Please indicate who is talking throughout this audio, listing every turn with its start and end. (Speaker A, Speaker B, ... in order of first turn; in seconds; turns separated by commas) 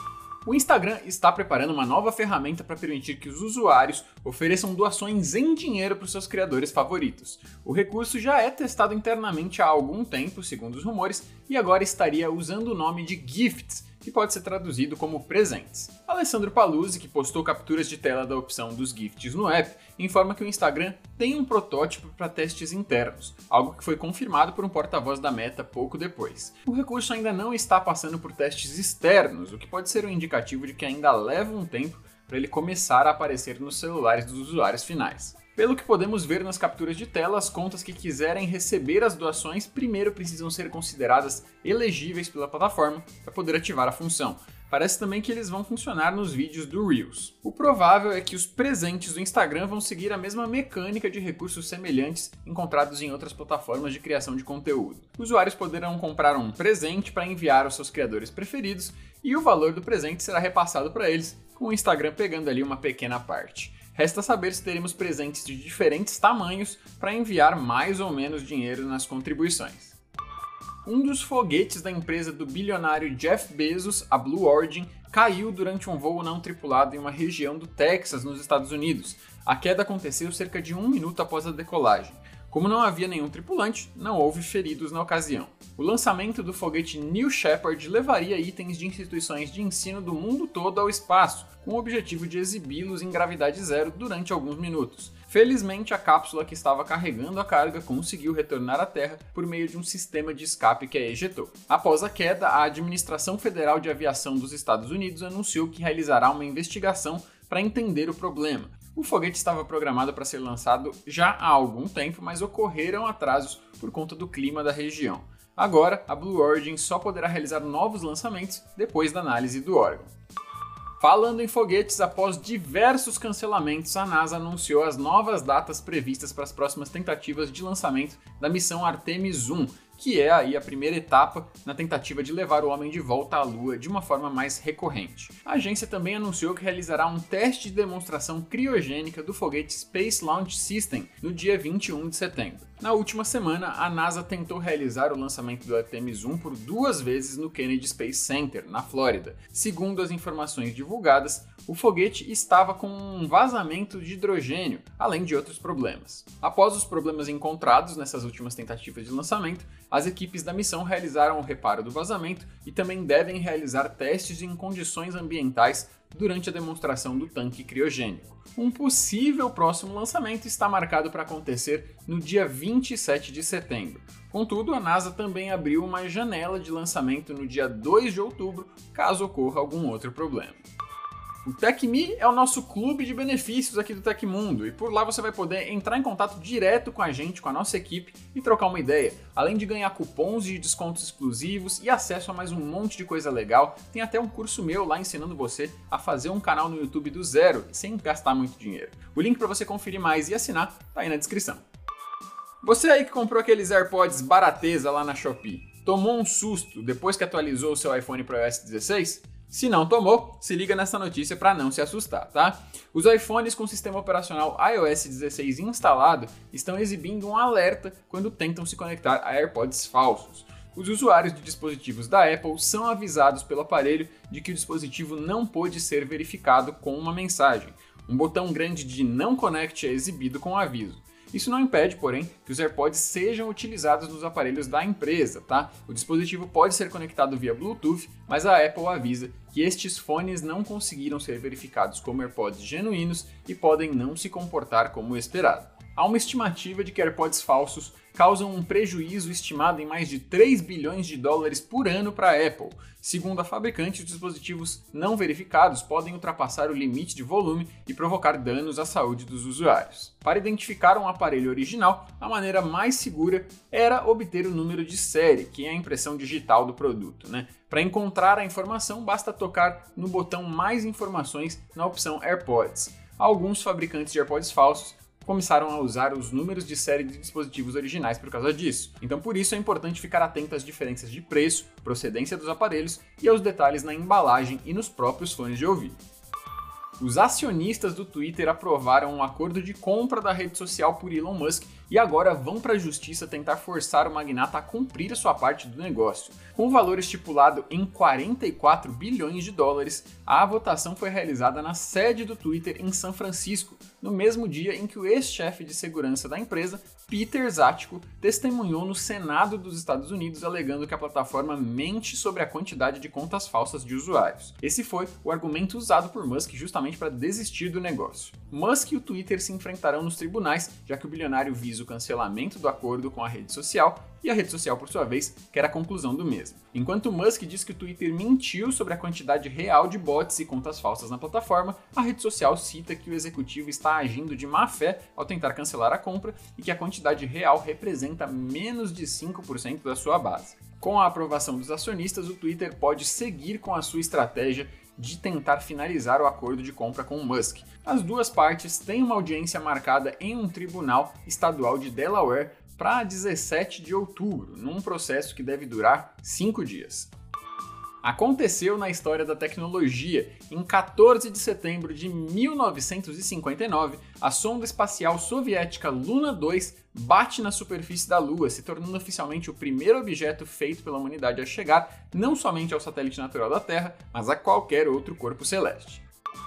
Speaker A: 0.4-70.0, Speaker A: 70.8-120.1, Speaker A: 121.0-180.6, Speaker A: 181.4-201.6, Speaker A: 202.6-286.0, Speaker A: 287.0-357.1, Speaker A: 358.0-376.0